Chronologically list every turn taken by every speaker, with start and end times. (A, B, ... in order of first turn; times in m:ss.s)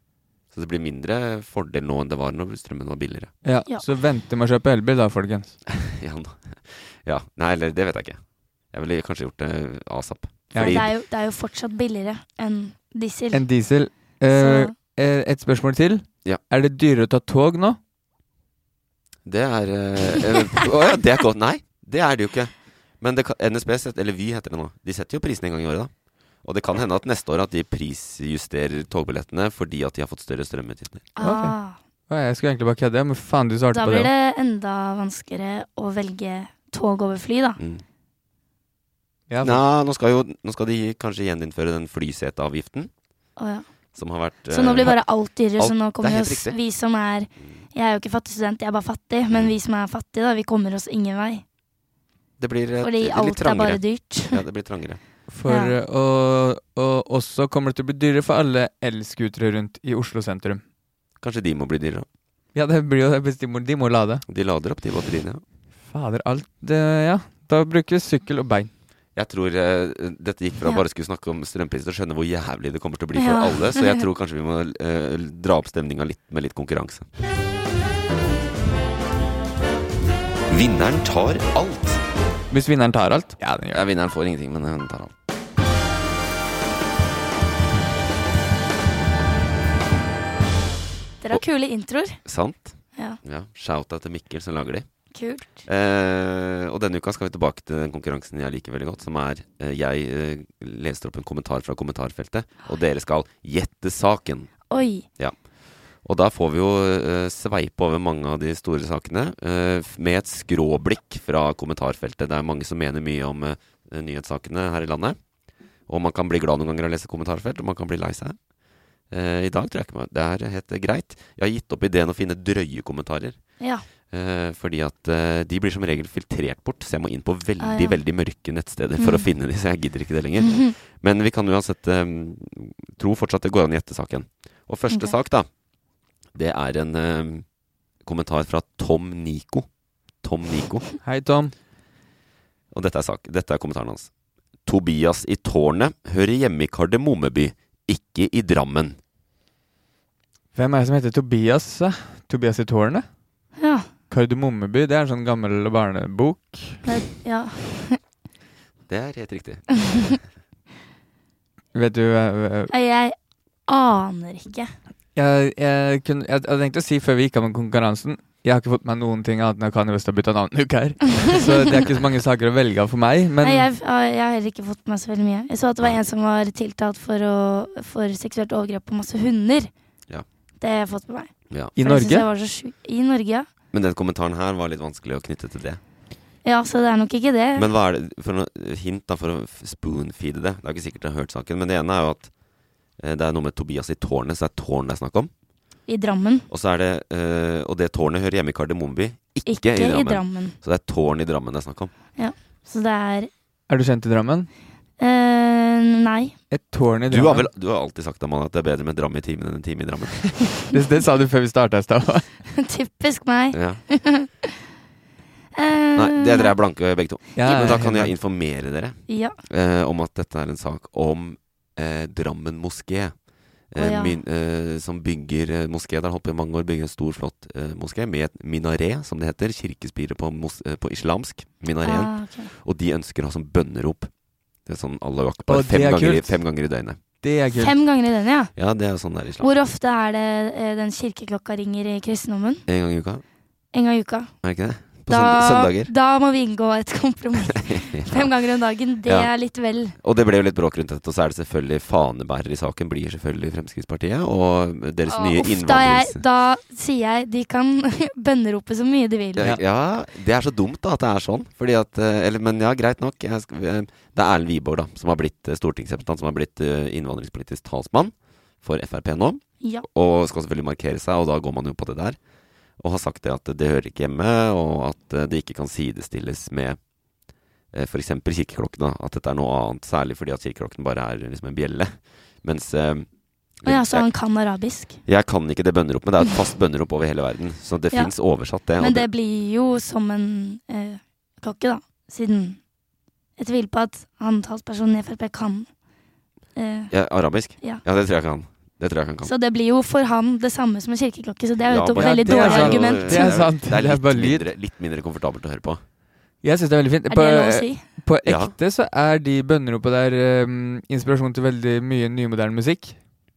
0:00.5-0:03.3 A
0:03.4-0:05.6 B
0:05.7-0:08.2 A
0:08.7-0:10.9 A
0:10.5-0:10.9 B
0:10.6-0:13.5 C
0:13.3-0:17.8 B
0:14.3-0:14.7 C
0:19.2-0:25.9 A
0:26.4-0:31.1 A
0:31.2-0:31.8 C
0:31.2-0:31.6 B
0:32.1-0:34.1 B
0:33.7-0:37.6 C
0:39.3-0:39.6 B
0:39.4-0:42.9 A
0:43.4-0:43.7 C
0:43.9-0:45.0 A
0:44.5-0:51.4 C
0:45.6-0:46.6 A
0:52.4-0:55.0 A
0:52.8-0:54.4 C
0:55.3-1:00.6 B
0:55.5-0:55.8 C
1:01.2-1:02.1 A
1:02.6-1:04.2 B
1:04.3-1:05.4 A
1:05.9-1:08.7 B
1:09.2-1:17.1 A
1:13.2-1:14.0 C
1:20.5-1:22.0 A
1:22.5-1:23.8 B
1:23.7-1:25.1 A
1:31.2-1:32.2 C
1:32.2-1:34.9 A
1:35.1-1:35.7 C
1:35.7-1:44.5 A
1:44.7-1:45.1 C
1:46.0-1:55.2 A
1:55.9-1:58.4 A
1:59.1-2:03.4 A
2:03.6-2:03.8 C
2:04.1-2:15.5 A
2:07.6-2:08.0 C
2:09.0-2:09.3 C
2:10.4-2:10.7 C
2:16.4-2:17.5 A
2:18.0-2:19.7 A
2:20.2-2:20.9 A
2:21.0-2:21.5 B
2:22.7-2:24.1 A
2:24.7-2:29.0 A
2:30.6-2:33.1 B
2:33.6-2:33.9 C
2:34.1-2:36.8 B
2:36.8-2:38.0 C
2:38.9-2:39.7 A
2:39.9-2:40.2 C
2:41.7-2:42.7 B
2:42.7-2:43.2 C
2:43.7-2:44.7 C
2:45.2-2:53.7 B
2:53.4-2:59.7 C
3:00.6-3:03.5 C
3:01.8-3:02.3 B
3:03.7-3:05.8 A
3:06.4-3:07.7 C
3:07.6-3:12.3 A
3:13.0-3:15.3 A
3:15.9-3:16.5 C
3:16.5-3:21.9 A
3:19.5-3:20.6 C
3:22.2-3:23.3 C
3:23.7-3:24.5 B
3:25.0-3:26.4 C
3:26.5-3:27.5 B
3:27.1-3:30.4 A
3:30.7-3:32.3 B
3:32.5-3:34.5 C
3:33.5-3:33.8 A
3:35.6-3:36.6 C
3:36.0-3:43.2 A
3:37.4-3:38.1 B
3:39.1-3:39.4 C
3:43.7-3:54.1 A
3:43.8-3:44.2 C
3:51.8-3:52.5 C
3:54.7-3:57.0 A
3:55.5-3:56.4 B
3:57.2-3:57.8 B
3:57.6-3:58.5 C
3:58.6-3:59.5 A
3:59.4-4:02.6 C
4:02.7-4:03.2 A
4:03.7-4:04.4 C
4:04.4-4:05.9 A
4:05.1-4:10.0 C
4:07.5-4:08.3 A
4:09.1-4:09.3 A
4:10.0-4:16.2 A
4:15.1-4:19.6 C
4:19.4-4:32.2 A
4:29.6-4:29.9 C
4:32.8-4:36.8 A
4:37.7-4:43.1 A
4:43.6-4:44.1 A
4:43.6-4:45.0 C
4:45.1-4:49.1 A
4:48.8-4:52.6 C
4:53.4-4:55.7 C
4:56.6-4:56.9 C
4:56.9-4:59.3 A
4:57.6-4:57.8 C
4:59.2-5:03.5 C
5:01.7-5:05.8 A
5:02.0-5:04.4 B
5:06.4-5:13.0 B
5:07.1-5:08.0 C
5:08.2-5:08.6 A